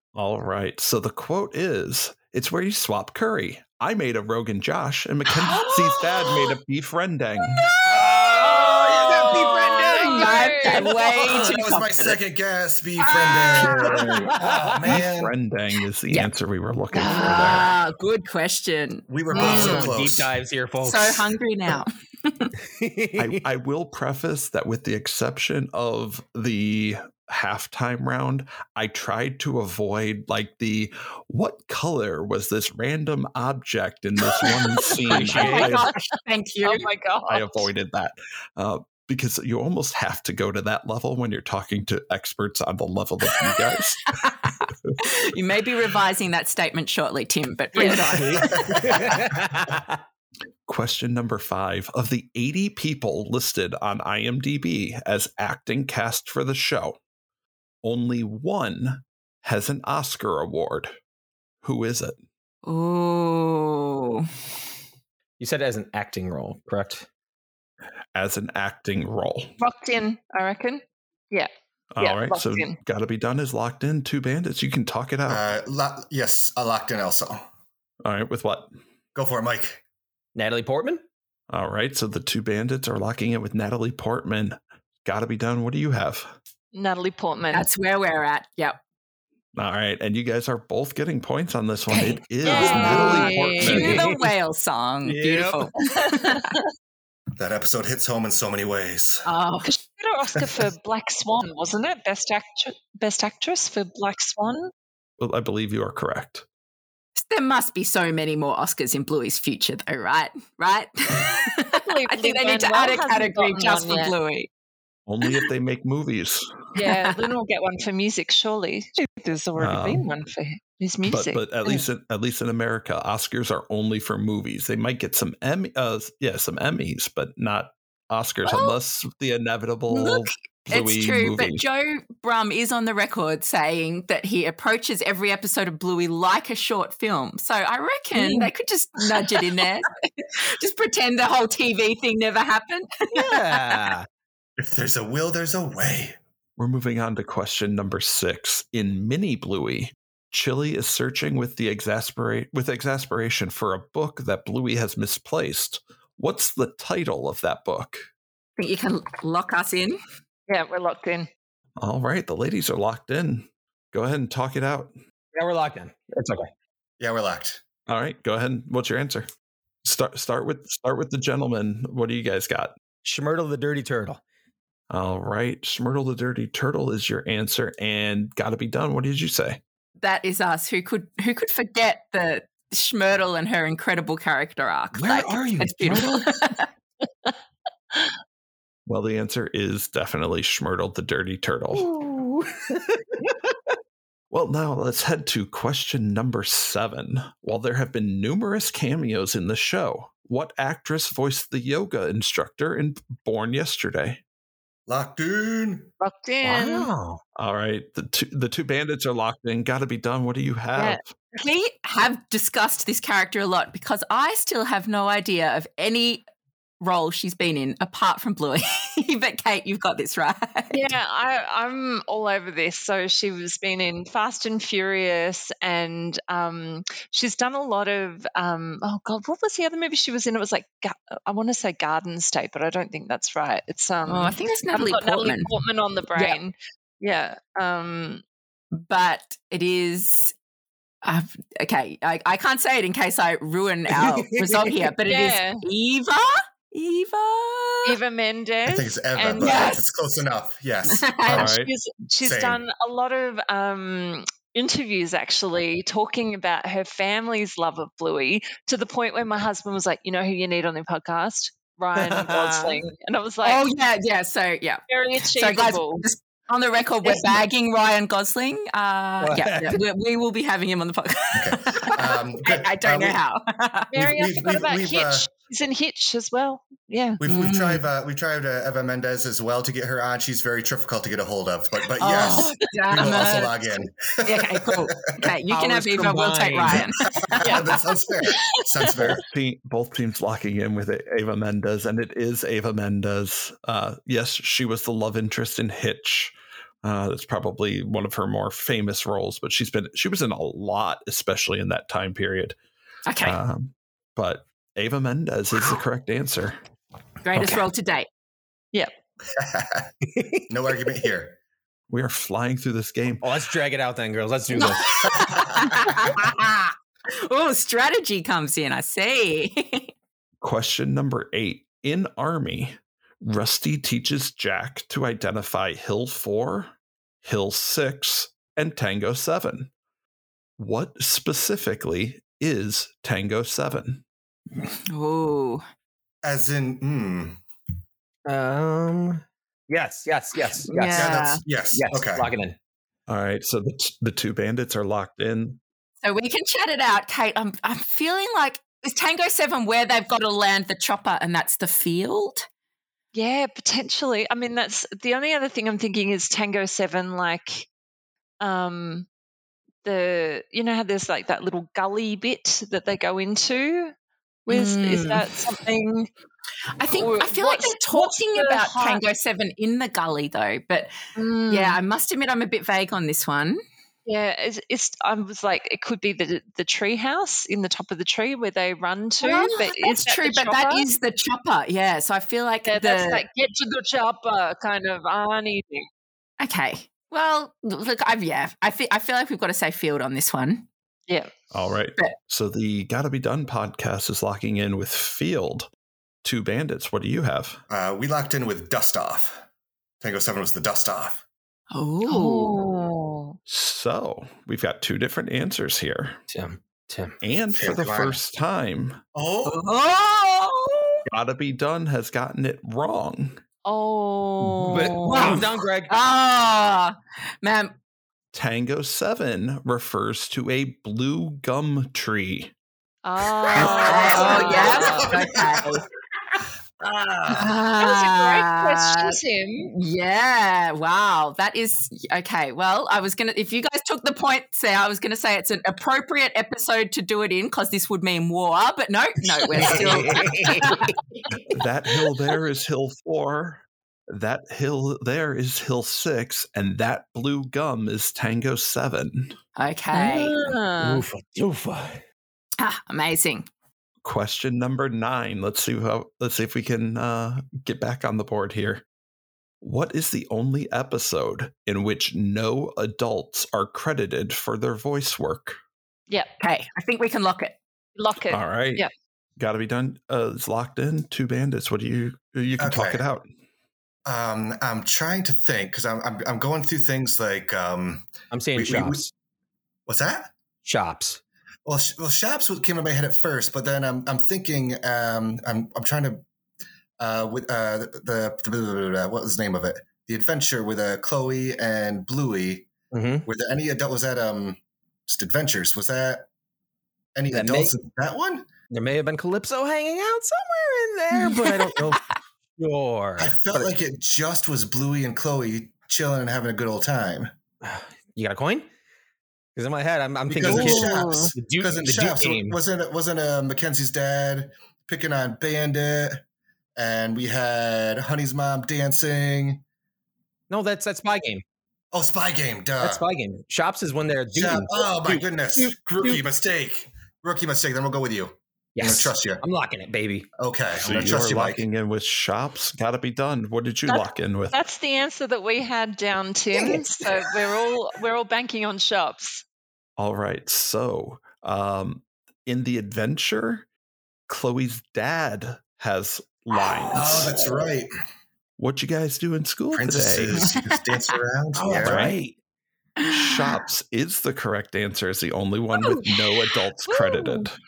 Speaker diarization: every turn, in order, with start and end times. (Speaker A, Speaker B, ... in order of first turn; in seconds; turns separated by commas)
Speaker A: 0.1-7.7, Speaker B: 5.3-6.6, Speaker C: 7.7-10.9, Speaker D: 8.4-11.5, Speaker B: 9.8-12.2, Speaker E: 11.3-15.3, Speaker B: 13.0-14.1, Speaker C: 13.7-15.0, Speaker A: 14.8-17.8, Speaker D: 16.9-17.5, Speaker B: 16.9-19.9, Speaker E: 19.1-20.3, Speaker C: 19.3-21.3, Speaker B: 20.8-22.5, Speaker C: 22.8-23.4, Speaker A: 23.2-35.9, Speaker D: 34.4-34.9, Speaker B: 34.5-36.9, Speaker C: 35.0-35.7, Speaker D: 35.5-37.7, Speaker A: 37.3-44.0, Speaker B: 44.2-49.1, Speaker A: 44.6-45.0, Speaker C: 47.8-50.0, Speaker E: 48.5-49.2, Speaker A: 50.7-57.0, Speaker A: 57.8-61.0, Speaker A: 61.6-62.2, Speaker B: 62.6-64.3, Speaker C: 65.4-67.1, Speaker A: 68.2-69.5, Speaker D: 69.6-71.5, Speaker A: 71.9-75.5, Speaker D: 72.0-72.8, Speaker E: 75.3-77.4, Speaker A: 78.0-78.7, Speaker E: 79.2-79.8, Speaker C: 80.3-81.0, Speaker A: 81.5-86.3, Speaker D: 86.7-87.7, Speaker B: 87.5-88.8, Speaker A: 89.5-94.0, Speaker B: 91.9-96.5, Speaker D: 92.4-93.9, Speaker C: 93.6-94.3, Speaker C: 95.0-95.7, Speaker D: 96.1-96.6, Speaker E: 97.4-99.3, Speaker B: 99.2-99.7, Speaker D: 99.6-104.7, Speaker E: 100.4-100.6, Speaker A: 105.2-106.5, Speaker B: 107.2-114.5, Speaker D: 111.7-114.1, Speaker A: 115.1-116.6, Speaker D: 116.8-121.9, Speaker B: 116.8-117.2, Speaker A: 119.6-120.1, Speaker A: 121.1-131.7, Speaker B: 128.4-128.8, Speaker B: 129.9-143.9, Speaker C: 138.2-138.5, Speaker C: 143.1-144.1, Speaker E: 144.6-146.2, Speaker A: 146.6-158.1, Speaker B: 158.6-160.0, Speaker D: 160.5-161.3, Speaker A: 161.8-164.9, Speaker C: 165.3-166.5, Speaker E: 167.0-167.6, Speaker A: 167.9-169.3, Speaker A: 169.8-172.7, Speaker C: 173.0-174.2, Speaker A: 174.9-179.6, Speaker B: 180.0-186.7, Speaker C: 184.9-186.4, Speaker A: 188.9-191.9, Speaker C: 191.7-193.6, Speaker A: 194.3-204.2, Speaker E: 204.9-205.9, Speaker D: 206.0-206.9, Speaker C: 206.4-207.2, Speaker A: 207.4-211.1, Speaker D: 210.8-211.0, Speaker B: 211.4-216.2, Speaker B: 216.8-220.8, Speaker D: 220.7-238.2, Speaker B: 234.1-235.5, Speaker B: 238.7-240.3, Speaker B: 241.0-248.0, Speaker C: 243.9-244.9, Speaker D: 245.1-245.6, Speaker D: 247.8-249.8, Speaker E: 248.7-251.6, Speaker B: 249.4-249.8, Speaker B: 250.9-251.4, Speaker A: 251.3-251.7, Speaker D: 251.4-263.7, Speaker E: 252.2-252.6, Speaker C: 262.0-262.8, Speaker B: 263.4-273.9, Speaker D: 264.9-266.1, Speaker D: 267.0-267.4, Speaker C: 269.2-269.8, Speaker E: 271.3-273.2, Speaker D: 273.9-277.2, Speaker E: 273.9-275.3, Speaker E: 277.2-285.3, Speaker B: 277.2-277.9, Speaker B: 282.0-283.5, Speaker B: 284.2-287.7, Speaker C: 285.5-286.9, Speaker E: 286.6-289.2, Speaker A: 288.9-302.6, Speaker B: 303.1-303.4, Speaker A: 303.2-306.6, Speaker B: 307.2-308.1, Speaker E: 309.3-309.9, Speaker C: 310.1-310.4, Speaker E: 310.5-311.4, Speaker A: 311.9-313.3, Speaker C: 313.2-315.8, Speaker B: 314.5-319.9, Speaker E: 315.3-315.9, Speaker A: 320.4-329.7, Speaker A: 330.6-334.0, Speaker B: 334.9-335.6, Speaker E: 336.2-337.4, Speaker C: 338.3-341.2, Speaker B: 340.6-341.4, Speaker E: 340.9-342.3, Speaker C: 341.7-342.6, Speaker A: 343.1-345.6, Speaker B: 346.0-352.5, Speaker D: 353.1-357.7, Speaker D: 358.4-359.1, Speaker D: 359.9-363.9, Speaker D: 364.5-366.1, Speaker B: 364.5-365.2, Speaker B: 366.8-370.9, Speaker D: 366.9-369.0, Speaker D: 371.2-371.8, Speaker B: 371.5-373.6, Speaker D: 374.1-380.9, Speaker B: 379.2-383.2, Speaker D: 382.7-385.9, Speaker B: 386.4-390.7, Speaker A: 391.5-395.7, Speaker A: 396.2-397.6, Speaker E: 397.7-399.4, Speaker E: 400.0-401.2, Speaker B: 401.7-402.6, Speaker D: 402.1-403.4, Speaker A: 403.5-406.2, Speaker C: 406.3-407.2, Speaker A: 407.2-409.0, Speaker E: 407.5-408.2, Speaker E: 409.1-409.6, Speaker B: 409.4-411.0, Speaker A: 411.1-413.4, Speaker D: 413.6-415.4, Speaker B: 414.4-417.8, Speaker C: 414.7-415.9, Speaker A: 418.3-422.5, Speaker D: 423.0-425.1, Speaker C: 423.4-424.7, Speaker B: 423.6-425.8, Speaker E: 423.9-425.8, Speaker E: 426.8-427.6, Speaker B: 427.3-429.2, Speaker D: 427.8-429.7, Speaker B: 429.7-440.9, Speaker C: 439.5-440.9, Speaker A: 441.5-449.4, Speaker B: 449.6-450.3, Speaker D: 449.9-451.1, Speaker C: 450.2-452.0, Speaker B: 452.6-453.5, Speaker A: 454.0-458.9, Speaker A: 459.6-465.6, Speaker B: 466.4-467.6, Speaker D: 468.0-468.9, Speaker A: 468.3-468.9, Speaker A: 469.4-473.3, Speaker E: 472.6-473.0, Speaker E: 474.1-479.1, Speaker C: 478.3-479.1, Speaker E: 479.9-480.3, Speaker C: 480.6-481.2, Speaker E: 481.6-486.2, Speaker E: 487.0-492.7, Speaker C: 492.9-493.3, Speaker E: 493.2-496.3, Speaker E: 497.1-498.5, Speaker C: 497.3-497.7, Speaker C: 498.7-502.0, Speaker B: 501.3-502.0, Speaker C: 502.6-503.7, Speaker E: 503.2-507.3, Speaker C: 507.6-508.7, Speaker C: 509.6-512.6, Speaker E: 510.3-516.2, Speaker D: 510.5-511.3, Speaker E: 516.8-519.6, Speaker C: 520.5-521.4, Speaker E: 521.9-523.0, Speaker C: 522.8-526.2, Speaker E: 524.3-529.4, Speaker C: 528.8-530.3, Speaker E: 530.4-531.6, Speaker A: 530.8-534.6, Speaker D: 533.9-539.4, Speaker A: 540.0-543.7, Speaker A: 544.3-547.5, Speaker E: 546.9-547.9, Speaker A: 548.6-550.5, Speaker E: 549.7-552.1, Speaker C: 551.5-552.4, Speaker A: 551.8-552.2, Speaker B: 553.0-553.5, Speaker A: 553.0-557.5, Speaker B: 555.8-557.5